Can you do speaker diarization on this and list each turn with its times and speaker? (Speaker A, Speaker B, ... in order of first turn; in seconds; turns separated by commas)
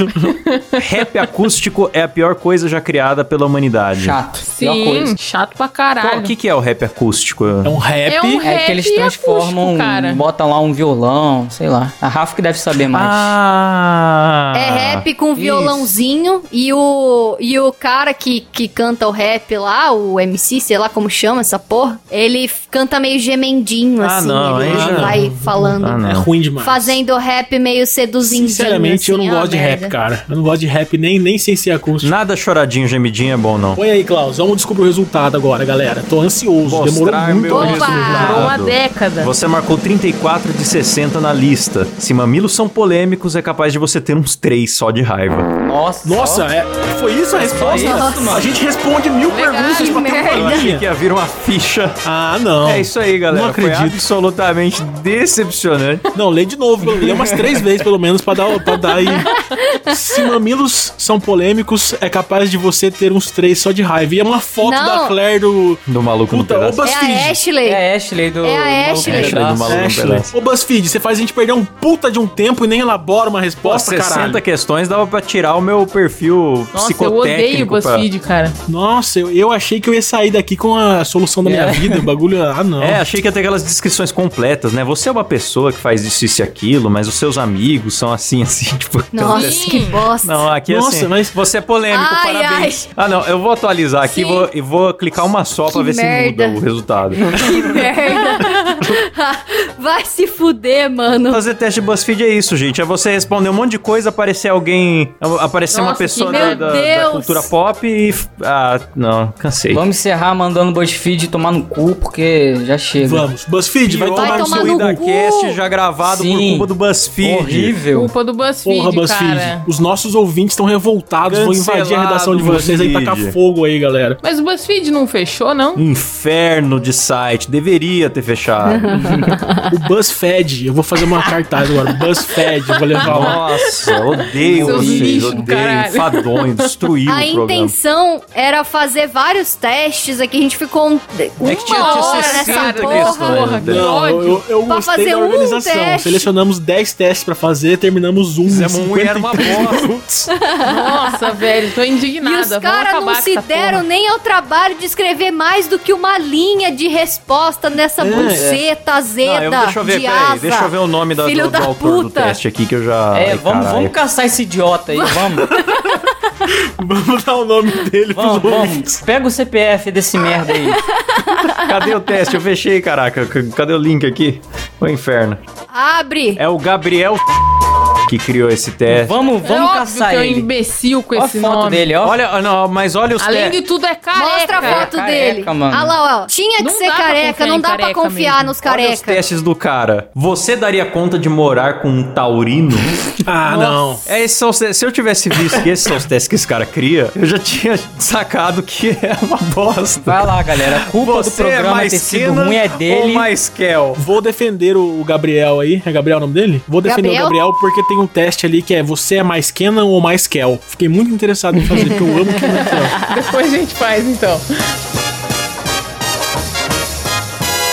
Speaker A: 0.3-0.8, Speaker B: 0.8-4.2, Speaker C: 4.0-5.2, Speaker A: 4.5-6.3, Speaker B: 6.0-7.8, Speaker D: 7.6-8.4, Speaker A: 8.1-10.2, Speaker C: 8.4-13.3, Speaker B: 12.9-15.1, Speaker E: 14.5-26.0, Speaker C: 15.3-15.9, Speaker B: 24.0-25.2, Speaker D: 24.6-27.0, Speaker B: 25.8-26.3, Speaker E: 26.6-29.9, Speaker D: 28.2-32.1, Speaker B: 32.0-33.8, Speaker D: 33.8-38.5, Speaker B: 36.6-45.5, Speaker E: 37.5-38.5, Speaker A: 38.0-39.3, Speaker C: 45.6-46.5, Speaker D: 46.0-50.8, Speaker C: 47.4-48.5, Speaker E: 47.8-48.4, Speaker A: 49.2-50.1, Speaker E: 49.7-50.8, Speaker B: 50.2-52.0, Speaker D: 52.0-54.0, Speaker B: 52.6-56.0, Speaker D: 56.1-59.3, Speaker C: 56.8-57.6, Speaker E: 58.8-60.4, Speaker D: 59.9-67.4, Speaker E: 64.6-65.2, Speaker B: 65.9-66.8, Speaker E: 66.8-67.8, Speaker C: 67.6-69.8, Speaker E: 68.4-69.5, Speaker B: 69.0-70.3, Speaker D: 69.6-74.4, Speaker B: 73.6-78.1, Speaker A: 76.7-78.6, Speaker D: 78.7-83.0, Speaker C: 81.4-82.0, Speaker B: 82.8-97.3, Speaker E: 89.1-90.5, Speaker A: 89.3-90.0, Speaker D: 90.7-91.4, Speaker E: 91.9-92.8, Speaker E: 94.0-94.5, Speaker E: 95.7-96.6, Speaker E: 97.2-101.4, Speaker A: 98.1-98.7, Speaker B: 101.3-109.8, Speaker A: 105.7-106.9, Speaker E: 106.2-107.5, Speaker C: 109.7-113.3, Speaker D: 113.0-115.0, Speaker B: 113.8-117.7, Speaker E: 114.1-115.6, Speaker C: 116.0-116.7, Speaker C: 117.2-118.1, Speaker A: 117.9-119.7, Speaker D: 118.6-124.2, Speaker B: 121.3-123.3, Speaker A: 124.2-125.8, Speaker B: 125.8-128.9, Speaker E: 128.7-129.7, Speaker C: 128.9-129.3, Speaker D: 129.7-133.4, Speaker A: 132.8-136.7, Speaker B: 133.0-137.8, Speaker C: 134.5-135.4, Speaker E: 137.1-143.6, Speaker B: 141.4-143.9, Speaker A: 141.6-144.4, Speaker D: 143.7-150.0, Speaker E: 144.7-146.3, Speaker B: 148.4-150.3, Speaker E: 150.4-151.3, Speaker A: 150.7-153.8, Speaker E: 152.2-162.4, Speaker D: 158.0-158.5, Speaker C: 158.0-158.6, Speaker B: 159.2-164.0, Speaker C: 163.1-165.6, Speaker E: 165.0-166.0, Speaker D: 165.4-169.0, Speaker C: 168.1-170.8, Speaker E: 170.4-171.9, Speaker B: 171.3-175.4, Speaker E: 175.7-176.4, Speaker B: 176.4-177.2, Speaker B: 178.0-179.2, Speaker C: 178.9-180.5, Speaker A: 179.4-181.9, Speaker C: 181.1-182.2, Speaker B: 182.0-183.6, Speaker A: 183.2-184.9, Speaker E: 184.2-189.2, Speaker C: 184.6-185.9, Speaker A: 186.6-188.5, Speaker B: 188.6-192.9, Speaker D: 193.2-194.0, Speaker B: 194.1-204.0, Speaker C: 200.0-203.3, Speaker D: 204.0-213.0, Speaker E: 206.8-207.4, Speaker E: 211.7-213.3, Speaker A: 212.4-214.5